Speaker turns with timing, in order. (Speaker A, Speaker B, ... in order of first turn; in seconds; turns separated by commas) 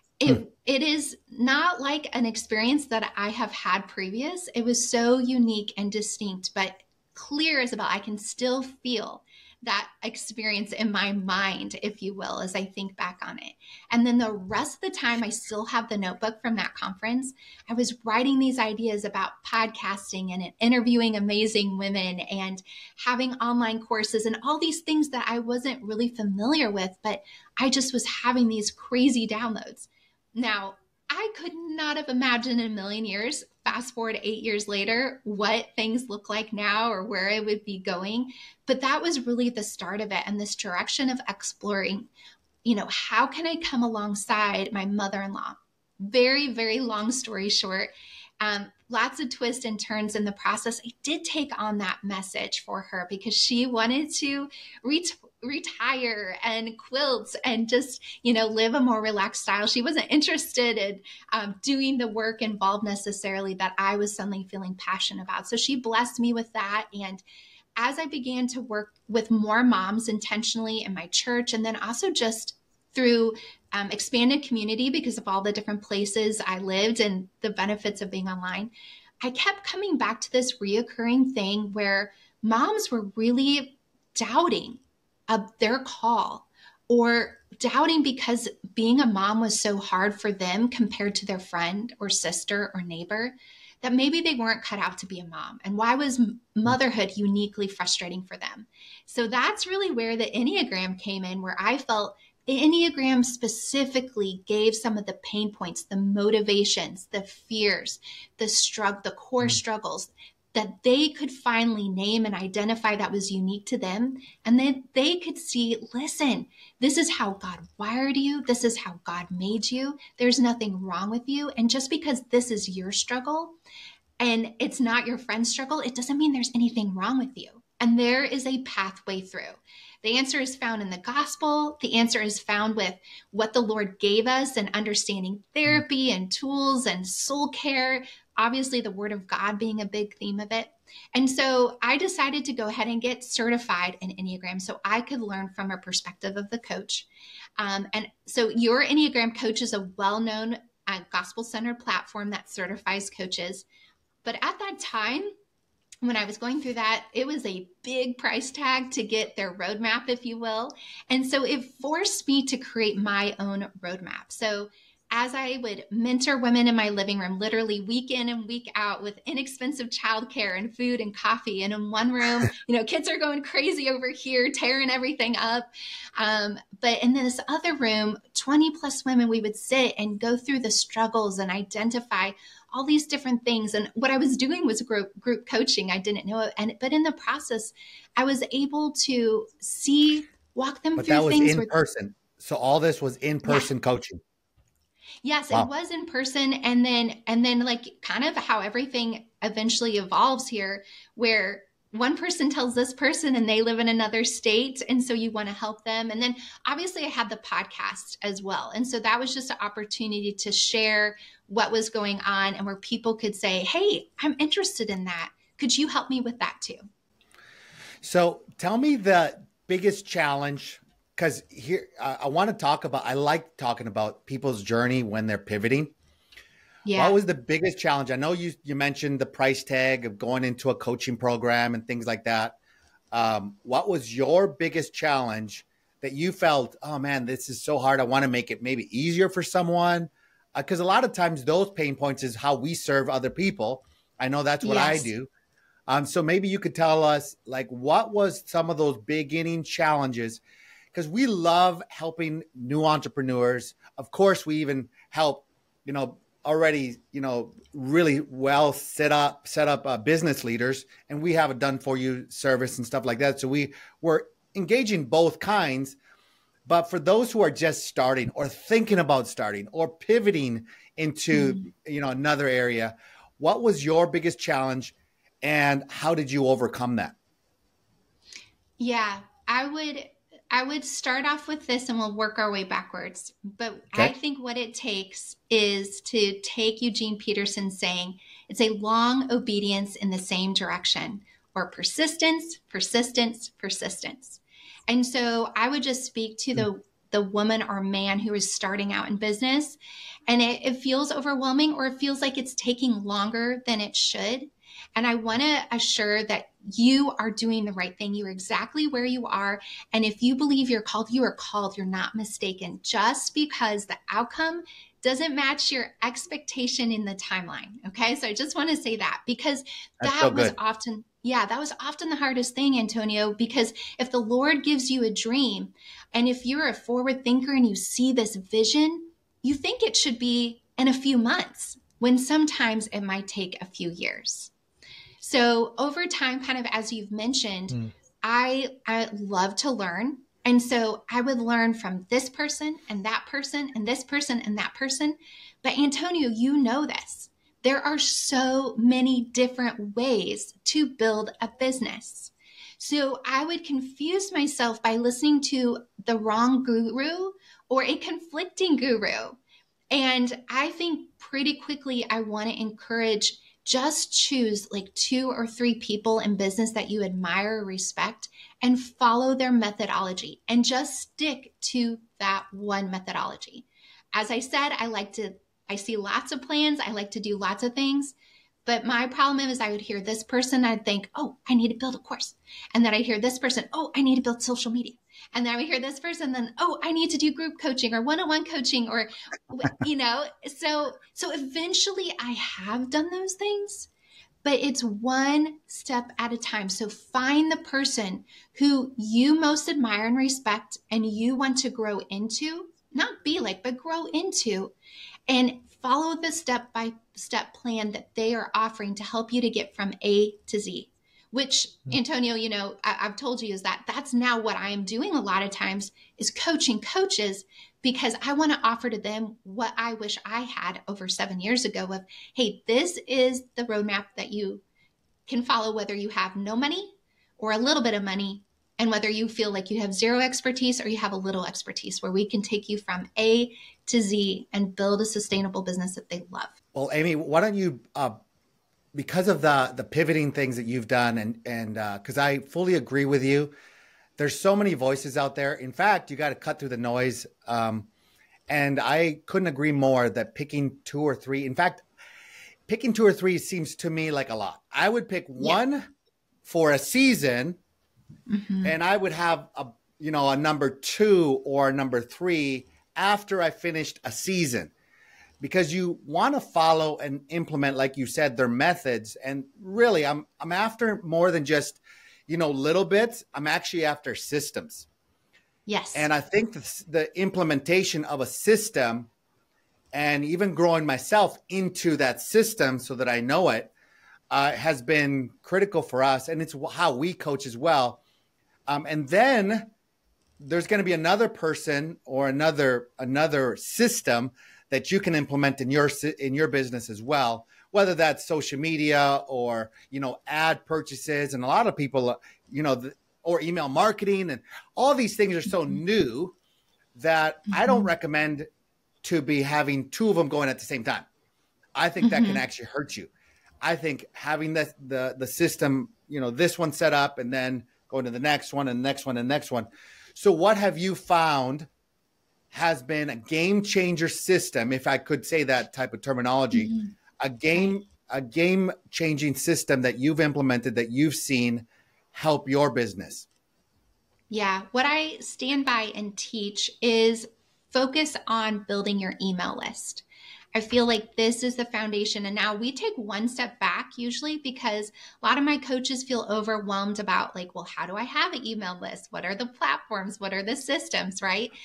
Speaker A: 0.2-42.1, Speaker A: 42.6-67.2, Speaker A: 67.8-78.7, Speaker A: 79.2-123.5, Speaker A: 124.2-147.1, Speaker A: 147.6-153.6, Speaker A: 154.2-155.3, Speaker A: 156.0-191.7, Speaker B: 191.0-194.2, Speaker A: 195.2-216.9, Speaker B: 218.0-225.9, Speaker A: 226.8-227.2, Speaker B: 226.9-232.6, Speaker B: 233.1-245.3, Speaker A: 244.6-245.1, Speaker B: 245.9-250.4, Speaker B: 250.9-266.0, Speaker B: 266.6-277.1, Speaker A: 271.3-271.7, Speaker A: 278.8-299.8, Speaker A: 300.3-334.5, Speaker B: 320.0-320.5, Speaker A: 335.2-359.4, Speaker A: 359.9-378.1, Speaker A: 378.6-393.9, Speaker A: 394.4-404.7, Speaker A: 405.3-424.6, Speaker A: 425.3-436.5, Speaker B: 436.7-438.2, Speaker B: 438.9-443.5, Speaker B: 444.2-447.9, Speaker B: 448.5-451.8, Speaker B: 452.7-455.9, Speaker B: 456.4-457.6, Speaker A: 458.3-458.7, Speaker B: 458.6-464.7, Speaker B: 465.4-474.9, Speaker A: 475.7-476.1, Speaker B: 475.9-479.1, Speaker B: 479.9-483.7, Speaker B: 484.3-488.0, Speaker B: 488.7-489.7, Speaker B: 490.4-506.3, Speaker B: 506.9-508.5, Speaker A: 507.5-507.9, Speaker B: 509.0-511.1, Speaker B: 511.7-513.1, Speaker A: 512.0-512.4, Speaker B: 513.6-521.7, Speaker B: 522.5-533.3, Speaker A: 526.5-526.9, Speaker A: 534.3-540.0, Speaker A: 540.5-551.5